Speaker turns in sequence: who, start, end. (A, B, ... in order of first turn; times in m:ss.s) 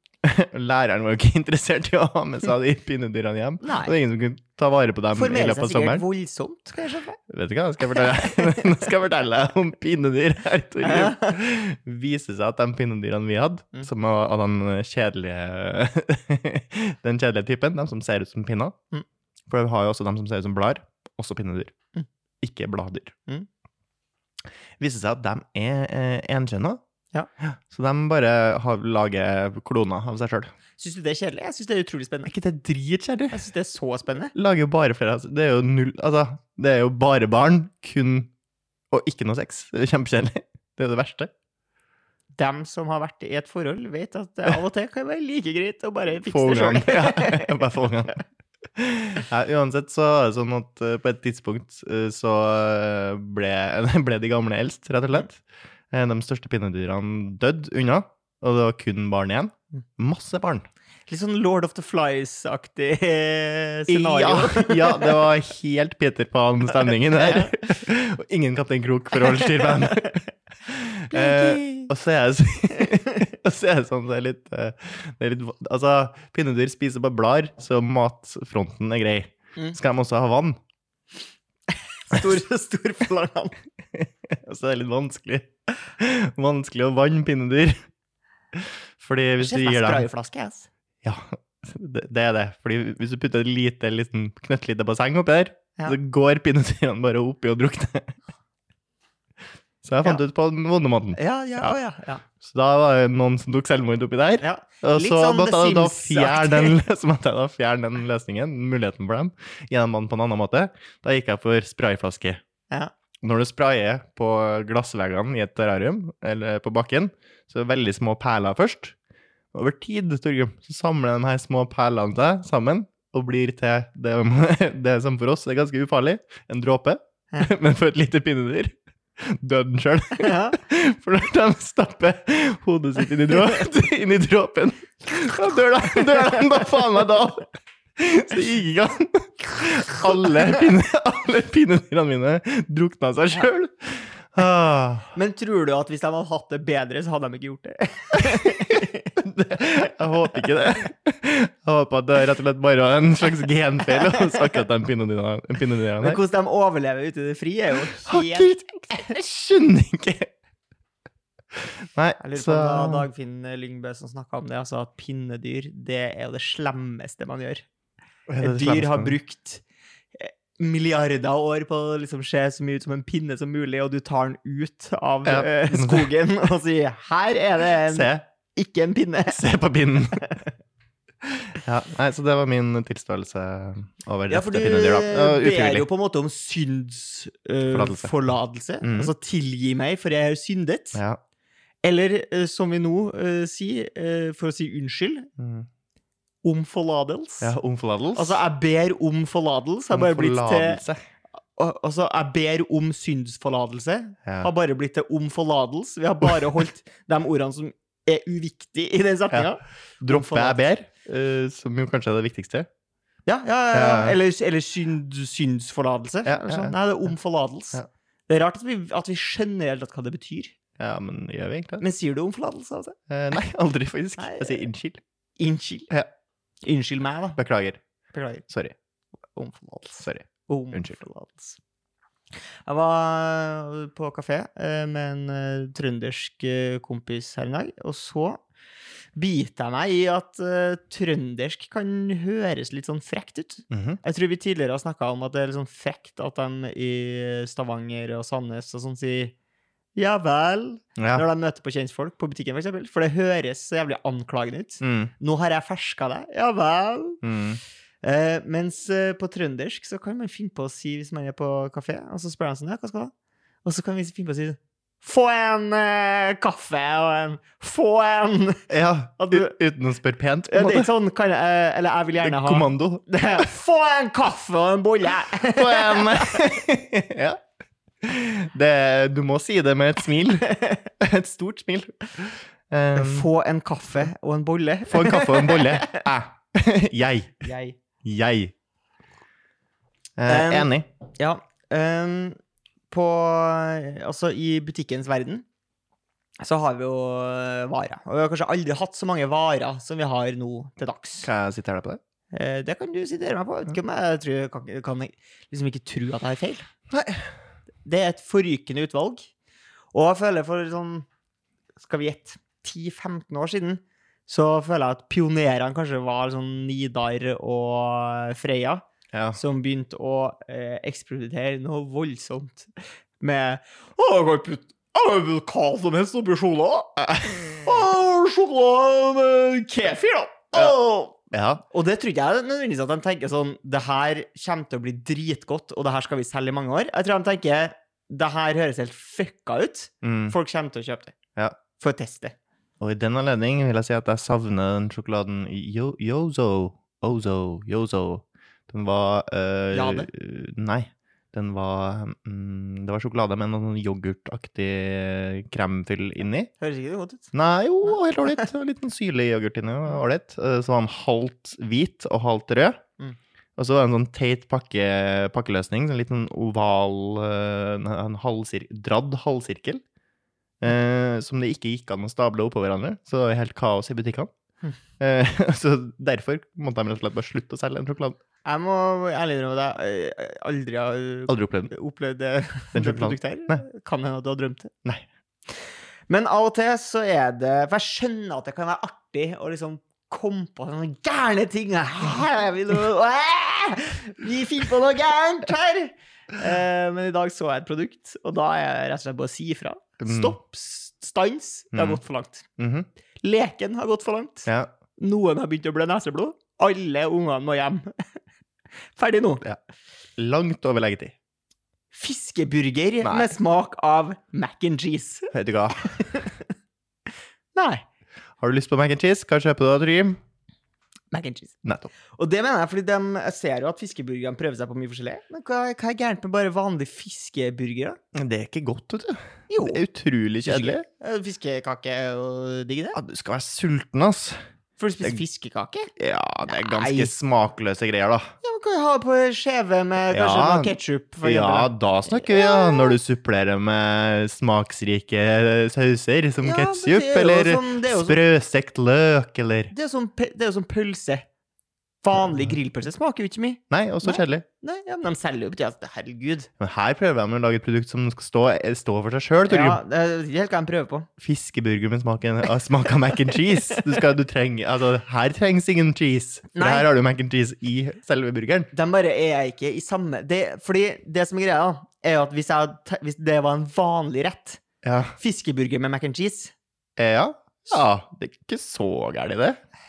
0:00.2-0:06.0 A
0:03.6-0:04.0 B
0:05.1-0:07.2 B
0:07.3-0:18.7 A
0:10.8-0:11.3 B
0:19.5-0:21.7 A
0:22.4-0:23.1 A
0:24.8-0:26.8 A
0:27.4-0:30.5 A
0:30.8-0:32.3 B
0:32.2-0:33.4 A
0:33.3-0:34.3 B
0:34.3-0:38.3 A
0:38.9-0:41.3 A
0:42.4-0:47.6 B
0:46.2-0:48.2 A
0:48.8-1:00.7 A
1:01.1-1:05.2 B
1:03.9-1:20.6 A
1:07.1-1:07.6 B
1:09.3-1:09.9 B
1:11.1-1:11.9 B
1:22.1-1:23.5 B
1:23.9-1:27.8 A
1:28.5-1:30.1 A
1:29.4-1:30.7 B
1:31.0-1:38.2 A
1:39.8-1:41.8 A
1:41.1-1:42.2 B
1:42.4-1:52.4 A
1:44.4-1:46.8 B
1:53.2-1:58.9 A
1:59.5-2:25.1 A
2:10.2-2:10.6 B
2:16.1-2:16.4 B
2:25.1-2:29.1 B
2:28.4-2:36.2 A
2:36.0-2:39.0 B
2:38.0-2:40.3 A
2:41.9-2:43.1 A
2:42.2-2:47.6 B
2:48.3-2:49.2 A
2:48.4-2:49.6 B
2:50.1-2:59.4 B
2:55.2-2:56.1 A
2:57.9-2:58.2 A
2:59.3-3:00.2 A
3:01.6-3:05.9 A
3:04.3-3:11.0 B
3:07.7-3:08.1 A
3:08.8-3:09.1 A
3:11.8-3:15.3 B
3:15.4-3:15.7 A
3:16.4-3:17.5 B
3:17.4-3:18.4 A
3:18.1-3:20.8 B
3:19.9-3:21.0 A
3:21.6-3:30.6 B
3:29.3-3:32.7 A
3:33.2-3:40.6 B
3:33.7-3:34.2 A
3:36.2-3:36.7 A
3:40.8-3:41.8 A
3:41.8-3:43.0 B
3:43.1-3:45.0 A
3:44.2-3:44.6 B
3:45.4-3:45.9 B
3:46.6-3:47.4 B
3:47.4-3:47.8 A
3:48.1-3:48.4 B
3:48.5-3:48.7 A
3:49.4-3:51.6 B
3:50.0-3:51.0 A
3:52.6-3:58.4 B
3:59.2-4:09.3 B
4:03.7-4:04.0 A
4:10.0-4:17.2 B
4:11.0-4:11.2 A
4:14.8-4:15.1 A
4:17.2-4:17.6 A
4:18.0-4:23.1 B
4:23.6-4:28.7 B
4:28.7-4:30.9 A
4:29.2-4:29.5 B
4:30.5-4:36.5 B
4:32.2-4:33.1 A
4:35.5-4:37.4 A
4:38.0-4:43.3 A
4:43.0-4:45.9 B
4:44.9-4:47.5 A
4:47.4-4:47.8 B
4:48.0-4:48.5 A
4:50.2-4:50.9 A
4:50.3-4:52.4 B
4:52.9-4:55.4 B
4:56.4-5:01.3 B
5:01.2-5:02.0 A
5:02.3-5:06.7 B
5:06.9-5:07.2 A
5:07.8-5:09.3 B
5:09.9-5:11.1 B
5:11.8-5:41.1 B
5:19.1-5:19.4 A
5:31.3-5:31.6 A
5:40.0-5:40.4 A
5:41.8-5:42.3 B
5:42.8-5:56.5 A
5:49.7-5:50.1 B
5:56.6-5:57.3 B
5:57.3-6:02.8 A
5:58.1-5:58.4 B
6:03.6-6:09.8 A
6:10.6-6:14.3 A
6:15.0-6:18.2 A
6:18.4-6:24.7 B
6:21.3-6:21.7 A
6:22.7-6:23.6 A
6:26.1-6:42.5 B
6:40.0-6:40.4 A
6:41.7-6:42.0 A
6:42.6-6:42.9 A
6:43.2-6:44.5 B
6:45.0-6:48.0 B
6:49.0-6:49.4 B
6:50.2-6:51.1 A
6:51.9-6:56.4 B
6:53.0-6:53.3 A
6:55.3-6:56.0 A
6:57.5-6:57.8 B
6:58.4-7:00.2 A
7:01.1-7:01.6 B
7:01.6-7:01.9 A
7:02.1-7:08.0 B
7:08.1-7:10.8 A
7:09.5-7:09.8 B
7:10.4-7:13.0 B
7:12.9-7:14.4 A
7:14.8-7:15.9 B
7:16.0-7:18.3 A
7:16.4-7:17.1 B
7:18.4-7:23.0 B
7:20.1-7:29.7 A
7:26.4-7:28.2 B
7:29.7-7:31.2 B
7:32.0-7:36.5 B
7:33.7-7:34.4 A
7:36.6-7:39.8 A
7:39.5-7:41.1 B
7:41.2-7:48.7 A
7:46.5-7:46.8 B
7:48.7-7:54.6 B
7:54.8-7:55.1 A
7:55.2-7:56.5 B
7:57.0-7:59.6 A